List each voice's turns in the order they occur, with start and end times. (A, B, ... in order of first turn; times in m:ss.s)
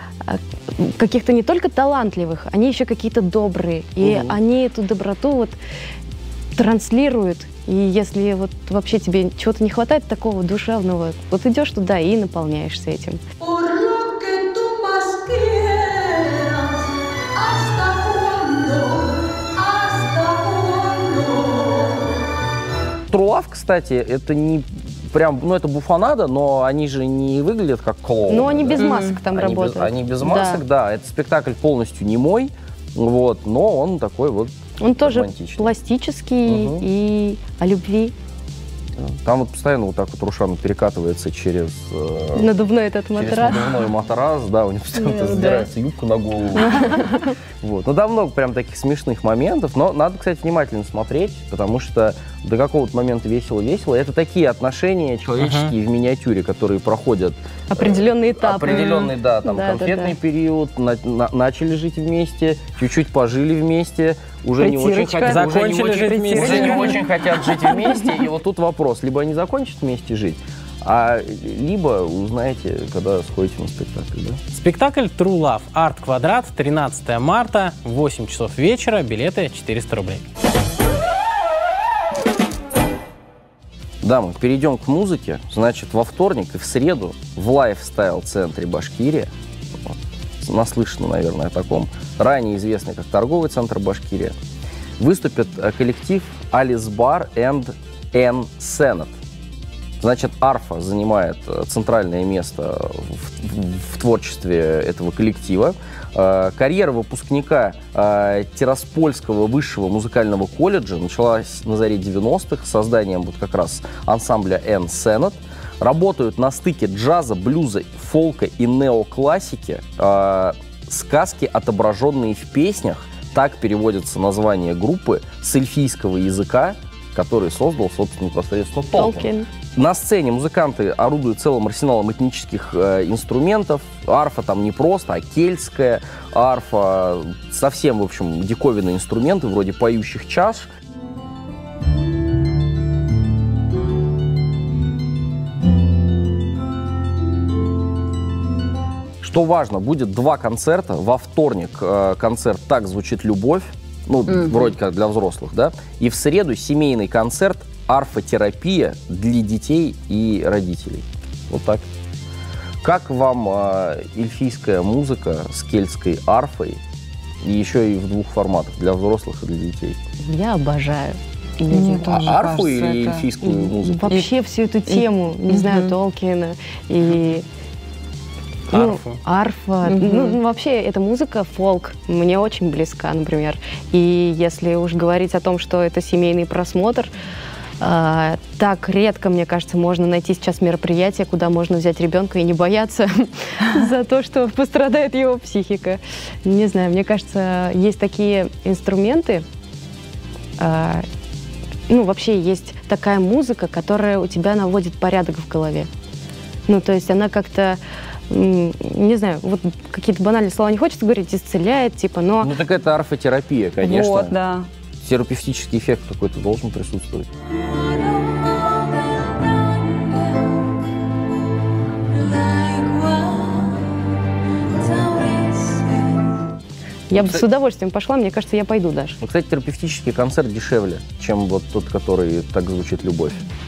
0:00.2-0:05.6 A
0:04.0-0:04.4 B
0:06.6-0:13.2 A
0:13.4-0:16.7 C
0:17.4-0:21.8 C
0:23.1-0:35.8 B
0:28.3-0:30.6 A
0:28.8-0:29.2 D
0:34.8-0:38.1 A
0:36.4-0:36.8 B
0:39.0-0:42.5 B
0:42.4-0:43.8 A
0:43.1-1:14.4 B
0:44.9-0:45.7 A
0:46.6-0:47.3 A
0:55.4-0:55.7 E
0:57.7-1:00.2 A
1:04.6-1:07.0 D
1:05.3-1:06.9 E
1:14.5-1:20.3 E
1:24.0-1:29.3 B
1:29.8-1:34.4 B
1:35.0-1:39.1 B
1:40.0-2:20.7 B
2:08.9-2:09.5 A
2:29.2-2:41.9 B
2:34.3-2:34.7 D
2:42.8-2:46.8 B
2:47.4-2:50.0 B
2:50.2-2:52.3 A
2:51.7-2:54.3 D
2:52.1-2:54.2 B
2:53.8-2:57.4 A
2:54.9-2:55.9 D
2:58.7-2:59.2 E
2:58.7-3:07.1 A
2:59.8-3:00.4 D
3:07.8-3:19.4 A
3:20.6-3:21.0 A
3:21.9-3:25.9 A
3:26.7-3:32.5 A
3:32.4-3:34.3 B
3:33.8-3:34.7 D
3:35.0-3:37.3 B
3:47.1-3:49.2 A
3:47.1-3:47.4 B
3:49.2-3:53.4 B